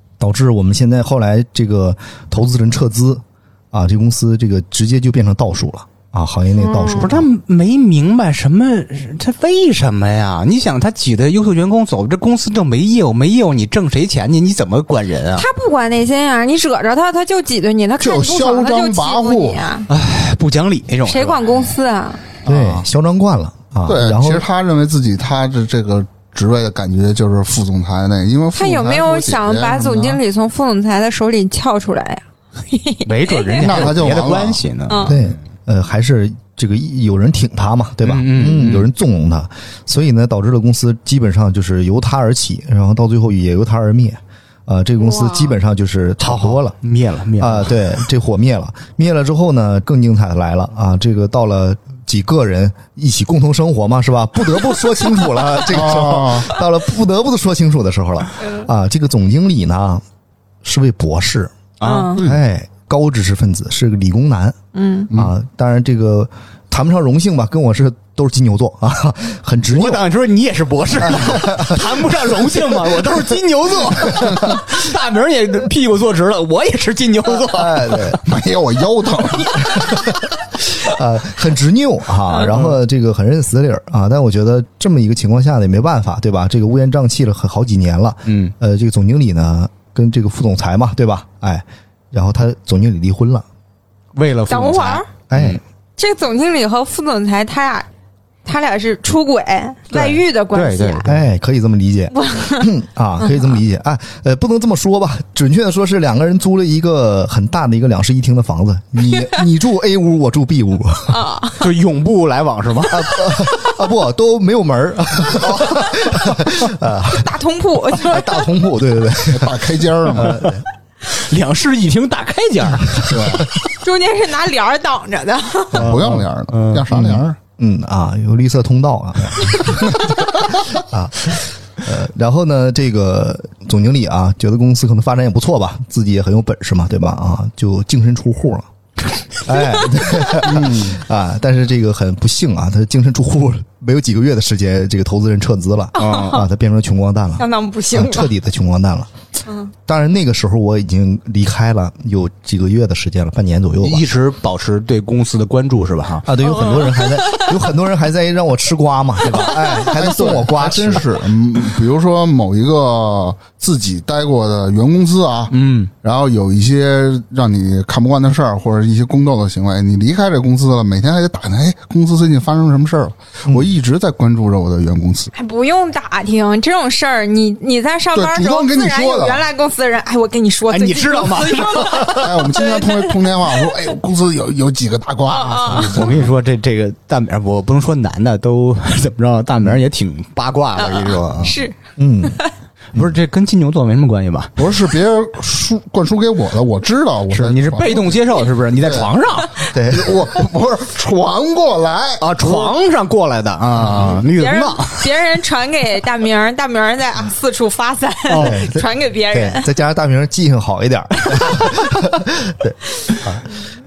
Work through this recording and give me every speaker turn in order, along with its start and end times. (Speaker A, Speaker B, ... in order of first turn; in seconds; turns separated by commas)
Speaker A: 0.2-7.3, Speaker B: 6.6-7.1, Speaker C: 6.9-15.5, Speaker B: 15.4-19.9, Speaker D: 18.0-19.7, Speaker C: 19.9-21.6, Speaker B: 21.1-22.2, Speaker D: 22.4-22.9, Speaker A: 22.4-24.5, Speaker D: 23.9-30.2, Speaker B: 28.6-33.9, Speaker C: 33.0-35.3, Speaker D: 33.6-34.6, Speaker B: 34.9-35.2, Speaker A: 35.0-46.8, Speaker C: 38.0-38.9, Speaker B: 45.0-45.5, Speaker C: 46.2-47.8, Speaker A: 47.4-60.0, Speaker D: 55.6-56.5, Speaker A: 60.6-61.5, Speaker C: 61.8-62.2, Speaker B: 61.8-62.2, Speaker A: 62.2-64.6, Speaker B: 64.7-65.1, Speaker A: 65.1-70.0, Speaker C: 69.7-78.1, Speaker A: 71.0-72.0, Speaker A: 77.3-78.2, Speaker D: 78.2-80.0, Speaker A: 79.7-93.5, Speaker C: 82.4-82.8, Speaker C: 88.3-88.5, Speaker C: 94.2-95.6, Speaker B: 94.5-95.1, Speaker A: 95.3-95.6, Speaker B: 96.0-97.9, Speaker B: 98.5-101.1, Speaker C: 99.9-101.2, Speaker A: 101.0-111.2, Speaker B: 102.1-102.7, Speaker B: 103.2-103.5, Speaker B: 111.1-111.6, Speaker C: 111.6-113.3, Speaker A: 112.9-117.3, Speaker B: 117.1-118.4, Speaker A: 117.9-120.7, Speaker D: 119.2-120.5, Speaker C: 121.1-123.5, Speaker D: 123.0-123.5, Speaker B: 123.8-126.0, Speaker C: 125.8-126.9, Speaker D: 125.8-127.4, Speaker A: 126.9-138.7, Speaker A: 139.4-149.1, Speaker D: 140.6-141.0, Speaker B: 146.0-146.4, Speaker C: 146.0-146.4, Speaker B: 147.4-148.3, Speaker B: 149.5-149.7, Speaker A: 149.9-154.0, Speaker C: 153.8-156.3, Speaker A: 156.2-161.1, Speaker B: 156.4-157.5, Speaker D: 159.8-175.3, Speaker C: 165.5-165.9, Speaker B: 175.3-183.6, Speaker D: 178.1-179.4, Speaker C: 180.7-182.4, Speaker D: 182.2-186.3, Speaker B: 185.3-186.0, Speaker C: 185.7-191.5, Speaker B: 190.8-192.5, Speaker A: 192.0-192.4, Speaker C: 192.9-194.6, Speaker D: 194.6-198.2, Speaker C: 197.3-199.6, Speaker D: 198.8-199.1, Speaker A: 199.7-200.2, Speaker D: 199.9-202.8, Speaker C: 202.2-205.1, Speaker D: 203.7-204.2, Speaker B: 204.3-209.7, Speaker C: 208.3-208.6, Speaker A: 208.3-213.5